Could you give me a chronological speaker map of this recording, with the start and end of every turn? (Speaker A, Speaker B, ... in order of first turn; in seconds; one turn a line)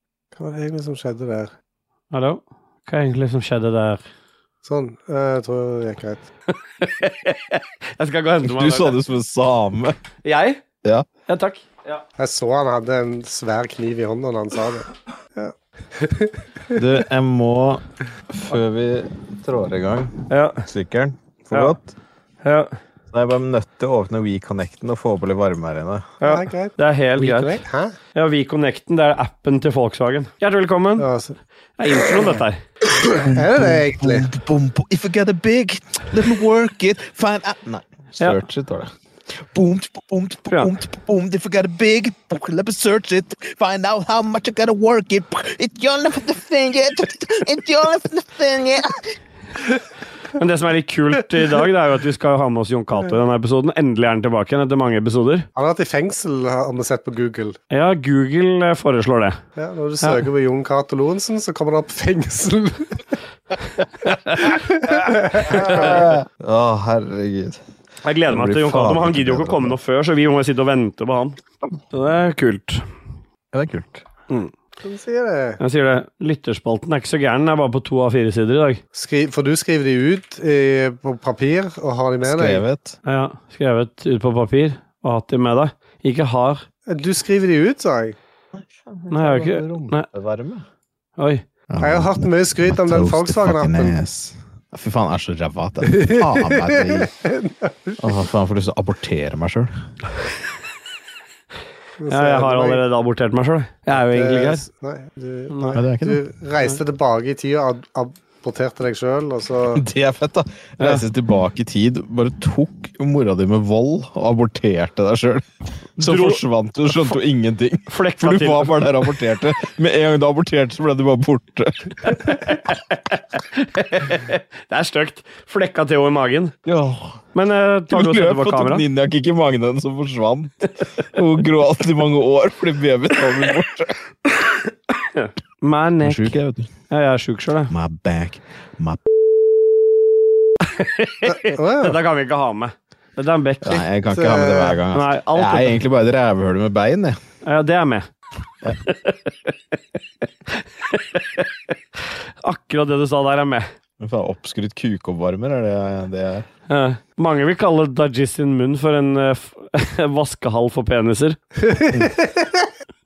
Speaker A: 0.3-1.5
Speaker B: 2.1-4.0
Speaker A: 4.6-6.2
Speaker B: 6.5-9.0
Speaker C: 8.4-9.9
Speaker B: 10.2-10.6
Speaker B: 11.3-12.0
Speaker A: 12.2-16.8
Speaker C: 16.7-21.9
Speaker B: 20.3-20.6
Speaker B: 21.5-21.8
Speaker B: 22.4-22.7
Speaker C: 23.1-26.1
Speaker B: 26.2-27.6
Speaker A: 26.2-27.9
Speaker B: 28.1-31.1
Speaker A: 31.0-31.4
Speaker B: 31.8-32.6
Speaker A: 33.2-34.3
Speaker C: 33.3-38.9
Speaker C: 39.5-49.0
Speaker B: 50.4-55.5
Speaker A: 55.5-57.6
Speaker B: 57.7-59.4
Speaker A: 59.5-63.2
Speaker A: 64.5-65.9
Speaker C: 65.4-67.6
Speaker B: 65.5-65.8
Speaker B: 68.0-71.4
Speaker C: 68.3-69.8
Speaker B: 71.9-72.8
Speaker C: 73.5-74.0
Speaker A: 74.8-75.6
Speaker B: 75.6-78.8
Speaker A: 78.9-82.6
Speaker C: 82.2-83.0
Speaker B: 83.0-86.7
Speaker A: 86.9-88.2
Speaker C: 88.6-90.6
Speaker B: 89.1-90.1
Speaker B: 91.2-91.4
Speaker C: 91.7-97.1
Speaker A: 91.8-94.0
Speaker A: 95.9-98.0
Speaker C: 98.0-99.7
Speaker A: 102.0-102.8
Speaker B: 102.1-104.6
Speaker A: 103.9-109.8
Speaker B: 105.5-105.8
Speaker C: 105.7-106.2
Speaker C: 109.7-115.5
Speaker B: 110.8-111.0
Speaker C: 116.0-122.2
Speaker B: 116.0-116.4
Speaker B: 117.9-119.1
Speaker B: 122.2-126.5
Speaker C: 126.7-127.2
Speaker B: 127.3-128.8
Speaker C: 127.9-133.9
Speaker B: 135.1-136.3
Speaker C: 136.0-136.7
Speaker B: 136.9-137.7
Speaker C: 137.7-139.0
Speaker B: 140.6-143.8
Speaker A: 141.3-141.9
Speaker C: 143.6-147.2
Speaker A: 144.1-144.8
Speaker B: 144.9-145.8
Speaker B: 147.4-148.1
Speaker B: 148.8-149.5
Speaker B: 150.6-151.5
Speaker B: 152.4-153.7
Speaker C: 154.0-156.4
Speaker B: 156.7-161.4
Speaker A: 161.6-162.7